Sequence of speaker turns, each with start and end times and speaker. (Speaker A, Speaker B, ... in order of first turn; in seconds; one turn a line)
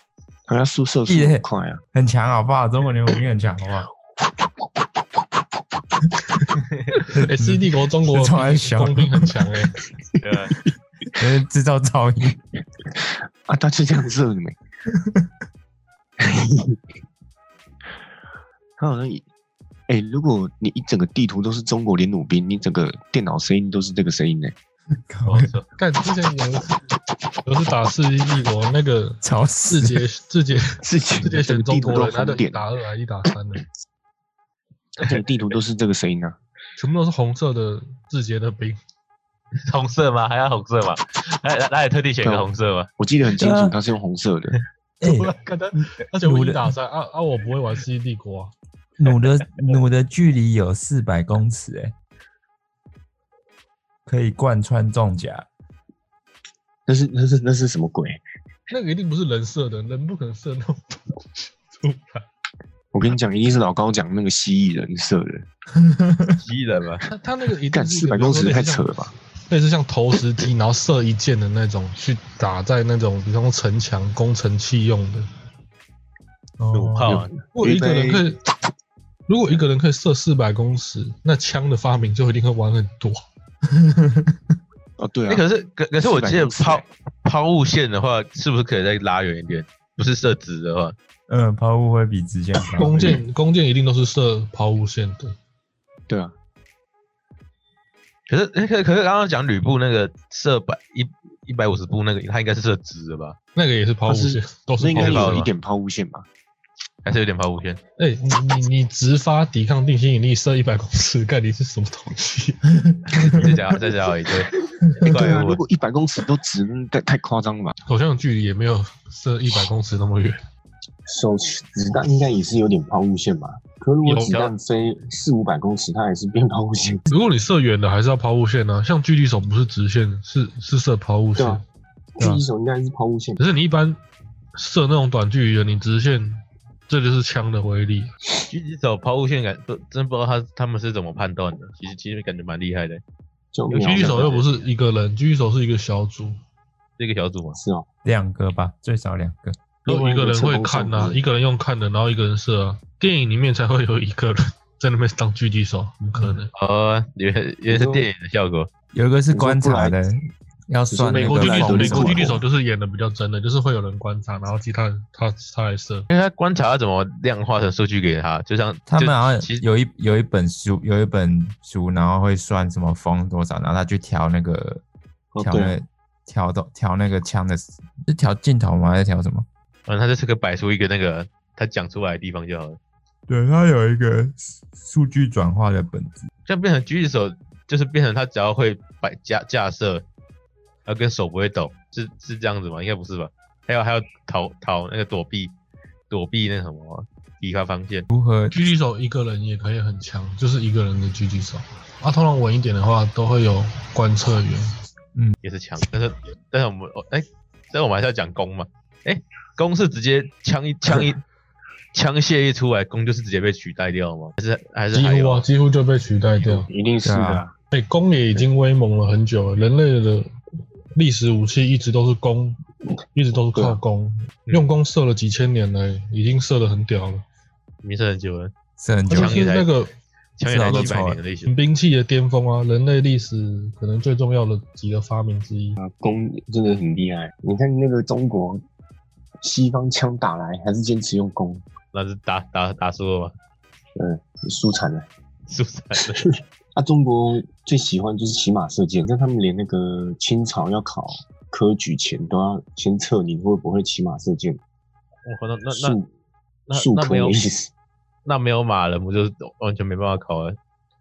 Speaker A: 0.5-1.8
Speaker B: 1.1-3.9
Speaker C: 7.0-9.8
Speaker B: 7.1-9.3
Speaker D: 10.2-10.6
Speaker B: 11.2-12.4
Speaker A: 12.9-14.6
Speaker B: 14.9-15.3
Speaker A: 16.2-16.8
Speaker A: 18.8-19.2
Speaker A: 19.9-24.6
Speaker B: 25.1-25.5
Speaker D: 25.3-25.7
Speaker C: 25.8-26.8
Speaker C: 27.4-33.6
Speaker B: 29.2-30.0
Speaker A: 30.8-32.6
Speaker A: 35.0-36.4
Speaker C: 36.8-38.8
Speaker D: 39.7-42.9
Speaker A: 42.2-44.6
Speaker B: 43.3-43.8
Speaker B: 45.0-46.7
Speaker C: 45.0-48.5
Speaker B: 49.0-51.9
Speaker B: 54.1-55.5
Speaker A: 56.9-58.2
Speaker C: 58.7-62.3
Speaker A: 62.9-65.5
Speaker B: 65.8-66.4
Speaker D: 66.4-67.0
Speaker C: 67.1-75.3
Speaker A: 67.7-69.1
Speaker B: 76.6-77.3
Speaker D: 76.7-77.3
Speaker A: 77.1-78.3
Speaker C: 77.5-78.4
Speaker C: 79.3-83.2
Speaker B: 83.7-84.4
Speaker A: 85.0-85.4
Speaker D: 85.3-91.0
Speaker A: 86.0-86.9
Speaker B: 91.3-93.2
Speaker C: 92.8-95.4
Speaker A: 96.1-96.3
Speaker D: 98.3-103.4
Speaker C: 103.5-105.5
Speaker A: 104.1-106.3
Speaker D: 105.0-105.5
Speaker D: 107.0-107.8
Speaker C: 108.0-112.7
Speaker D: 113.2-115.6
Speaker A: 115.0-117.7
Speaker C: 117.9-120.4
Speaker A: 121.1-127.1
Speaker C: 124.0-124.4
Speaker C: 127.1-131.6
Speaker A: 131.4-131.6
Speaker A: 132.2-133.4
Speaker B: 132.2-132.4
Speaker C: 133.4-134.0
Speaker C: 134.6-138.1
Speaker D: 138.5-143.0
Speaker A: 143.5-144.4
Speaker D: 143.7-144.6
Speaker C: 143.8-146.4
Speaker D: 147.0-147.6
Speaker A: 147.6-147.9
Speaker B: 148.0-149.6
Speaker A: 149.9-151.2
Speaker C: 149.9-156.5
Speaker D: 156.5-158.7
Speaker A: 157.7-158.1
Speaker B: 158.9-162.4
Speaker A: 159.3-160.0
Speaker A: 160.9-162.4
Speaker C: 161.1-166.1
Speaker D: 166.1-169.6
Speaker B: 168.9-174.8
Speaker A: 175.3-175.8
Speaker B: 175.4-179.5
Speaker D: 179.9-182.8
Speaker B: 183.3-186.3
Speaker D: 186.5-190.1
Speaker D: 190.8-195.6
Speaker D: 196.1-198.1
Speaker B: 198.1-198.6
Speaker C: 198.5-204.7
Speaker D: 205.4-211.2
Speaker D: 211.9-215.5
Speaker C: 214.9-216.7
Speaker A: 216.4-217.5
Speaker B: 217.1-217.4
Speaker C: 217.7-220.3
Speaker C: 220.9-222.6
Speaker C: 223.2-227.2
Speaker A: 223.6-223.8
Speaker D: 227.8-228.5
Speaker B: 228.8-229.5
Speaker C: 229.1-229.9
Speaker D: 229.1-229.7
Speaker D: 230.4-231.5
Speaker B: 230.4-231.2
Speaker C: 230.7-230.9
Speaker C: 231.5-235.8
Speaker A: 235.8-238.6
Speaker A: 239.4-241.6
Speaker D: 241.9-243.3
Speaker A: 244.0-245.1
Speaker D: 245.5-246.3
Speaker A: 246.1-254.6
Speaker D: 255.3-256.0
Speaker A: 255.7-256.1
Speaker D: 256.7-257.4
Speaker A: 256.7-257.7
Speaker D: 258.2-260.6